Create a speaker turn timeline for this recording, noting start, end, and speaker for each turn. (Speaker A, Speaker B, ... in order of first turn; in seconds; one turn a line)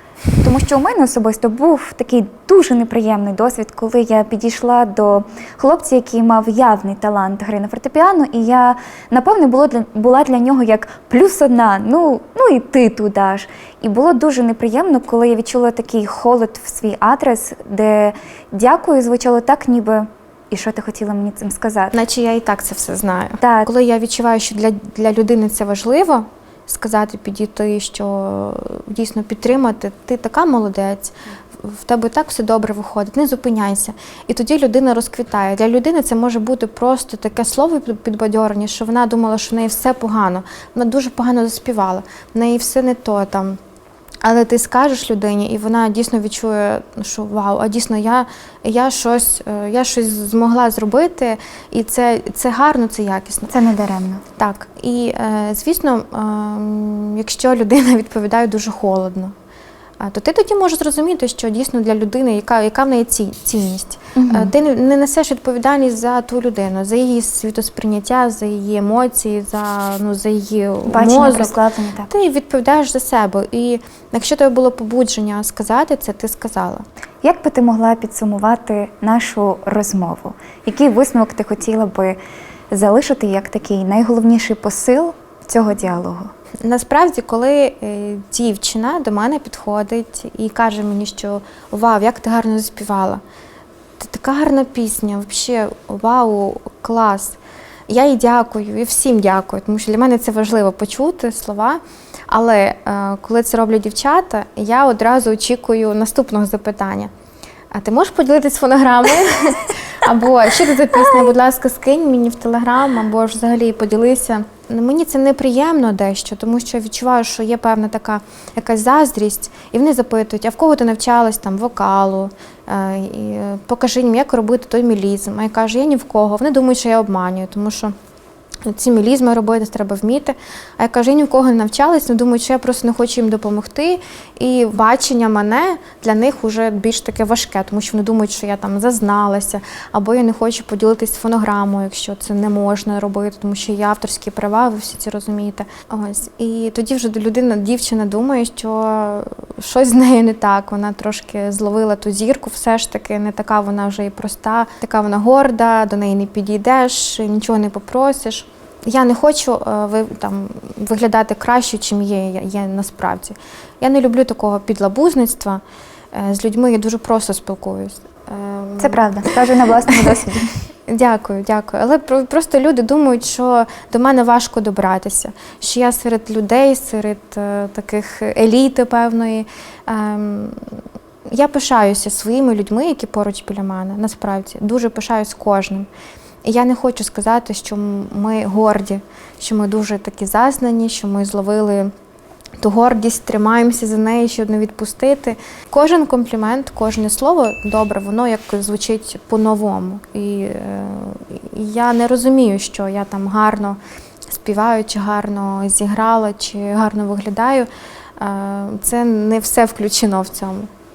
Speaker A: 0.4-21.9
Speaker B: 21.9-43.6
Speaker A: 23.4-23.7
Speaker B: 44.2-53.5
Speaker A: 53.5-54.2
Speaker B: 54.4-59.3
Speaker B: 60.0-71.6
Speaker A: 64.1-64.5
Speaker A: 70.9-72.1
Speaker B: 72.1-76.8
Speaker A: 77.2-82.2
Speaker A: 82.7-86.3
Speaker B: 86.6-93.2
Speaker B: 94.0-107.1
Speaker B: 107.7-127.9
Speaker B: 128.7-165.6
Speaker B: 166.1-169.5
Speaker A: 168.8-170.5
Speaker B: 170.9-180.8
Speaker B: 181.3-185.9
Speaker B: 186.4-191.9
Speaker B: 192.6-210.7